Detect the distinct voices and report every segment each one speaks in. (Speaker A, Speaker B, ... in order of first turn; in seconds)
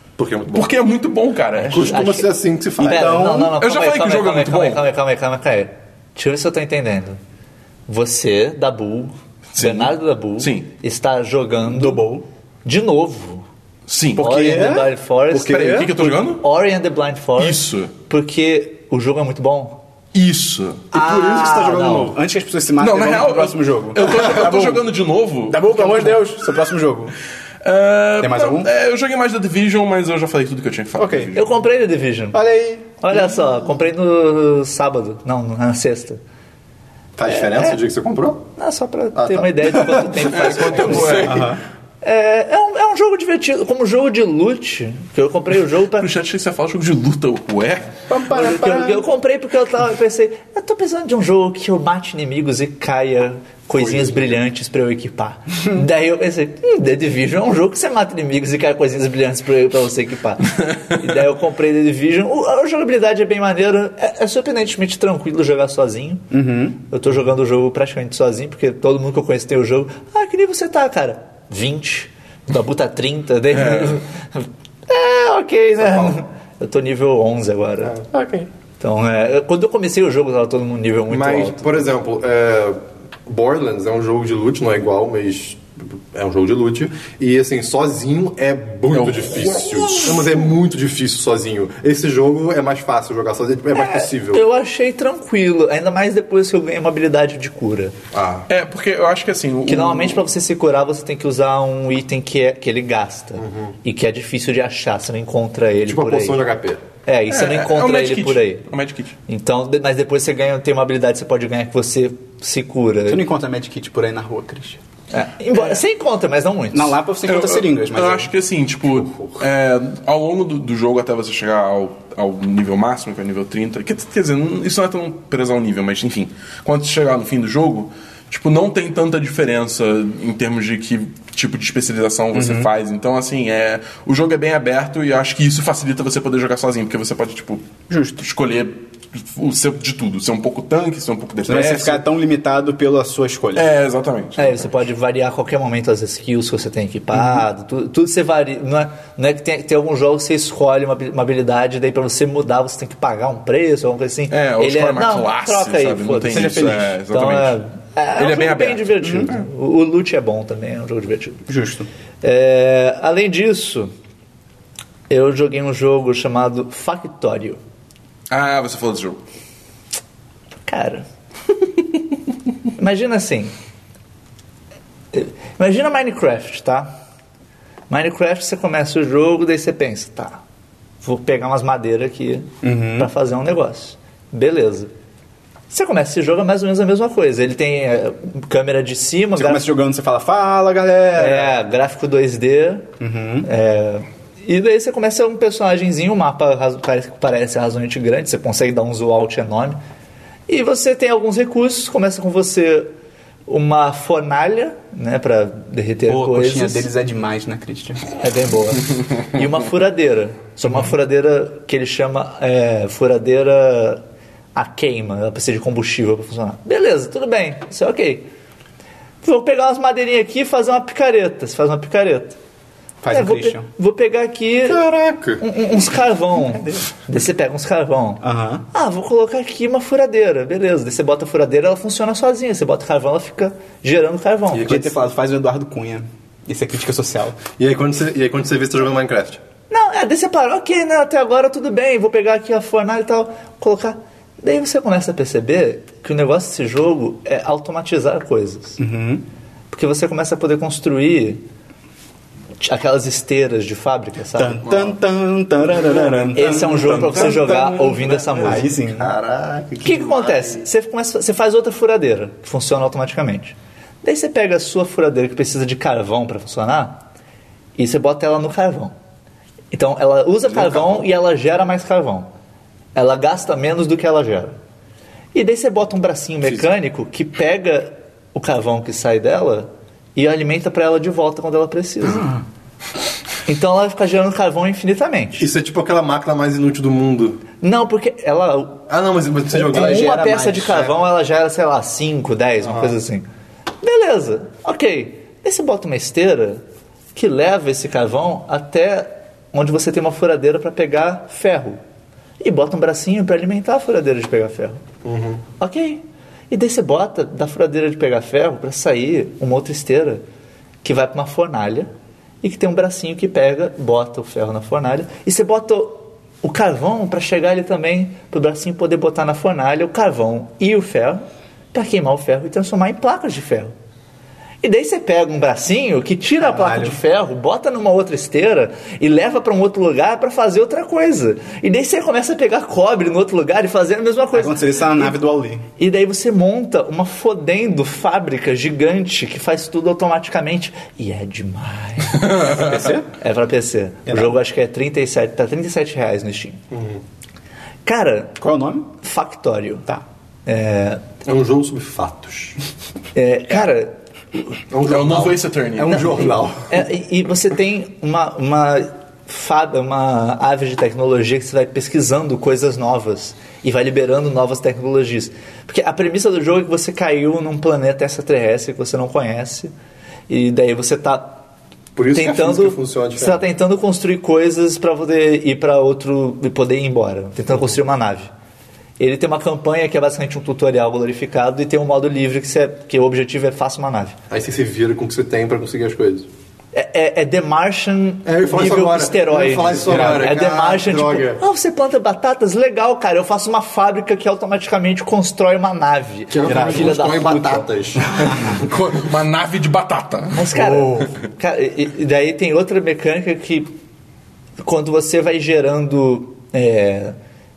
Speaker A: 0.2-0.7, 1.6-3.2, 20.9-22.2, 37.2-38.5, 39.1-41.4, 53.8-54.4, 75.8-76.2, 77.8-78.5, 81.1-94.4, 98.1-98.5, 103.4-103.8, 105.9-106.8, 224.7-225.4, 234.5-234.9, 237.6-239.4, 254.7-254.9, 255.8-260.6, 270.5-271.0, 285.4-287.4, 288.9-290.9, 292.6-292.9, 305.1-305.4, 346.7-347.0, 351.2-352.6, 354.7-356.8, 371.9-373.4, 384.3-386.3, 388.2-391.4, 396.3-398.1
Speaker B: 0.5-1.9, 3.6-4.8, 9.5-10.7, 13.9-14.3, 15.3-16.4, 17.4-17.9, 20.1-20.9, 22.8-26.2, 27.6-31.6, 40.3-41.5, 46.0-48.0, 73.5-74.0, 88.9-90.3, 98.5-100.2, 107.3-109.2, 117.3-137.7, 138.2-142.0, 143.5-144.7, 154.3-157.6, 158.2-159.4, 168.3-169.2, 354.9-356.3, 398.3-400.5
Speaker C: 1.6-7.2, 7.9-12.0, 12.7-13.4, 14.2-19.8, 20.9-22.1, 31.4-32.4, 33.0-36.2, 37.3-37.8, 38.6-41.4, 42.0-46.1, 48.3-66.2, 66.9-78.0, 78.8-81.9, 93.7-97.9, 99.7-106.4, 107.1-108.7, 109.3-113.2, 115.1-117.0, 144.4-161.4, 162.2-163.9, 165.1-167.6, 170.7-171.1, 172.8-173.5, 175.1-176.9, 177.9-180.4, 181.0-184.9, 185.7-189.7, 191.2-192.9, 193.4-199.8, 200.5-202.9, 203.5-206.9, 208.2-214.0, 214.6-218.3, 219.2-222.4, 223.1-224.8, 225.4-234.9, 239.7-248.8, 249.7-251.4, 252.6-254.7, 256.3-258.8, 259.8-267.0, 267.8-268.9, 269.7-272.3, 272.9-274.6, 275.3-282.4, 283.5-285.5, 287.6-288.9, 289.6-293.3, 293.8-296.6, 297.1-301.8, 302.4-304.8, 305.6-310.2, 310.8-311.9, 312.4-323.7, 324.6-335.2, 335.8-346.6, 347.9-348.4, 349.0-349.9, 350.5-351.1, 353.1-354.4, 356.7-369.7, 370.3-371.4, 372.1-378.3, 379.0-384.2, 386.7-397.7, 400.3-403.7, 404.6-407.1
Speaker D: 2.8-3.5, 11.7-12.2, 14.2-14.9, 15.5-15.9, 22.1-24.8, 25.5-27.1, 28.2-28.7, 31.0-31.3, 32.3-32.9, 41.2-41.6, 48.1-49.0, 66.3-66.8, 113.1-114.8, 116.7-118.3, 132.3-132.7, 137.9-138.2, 141.4-143.7, 156.3-156.9, 159.0-159.3, 161.5-161.9, 182.6-183.1, 189.4-191.6, 193.0-193.5, 206.1-208.1, 223.0-223.7, 228.2-228.7, 234.7-237.4, 248.8-249.2, 254.3-259.1, 289.5-290.9, 326.4-327.0, 334.3-335.7, 342.4-343.1, 344.1-344.4, 348.4-348.9, 389.9-390.3, 396.4-397.0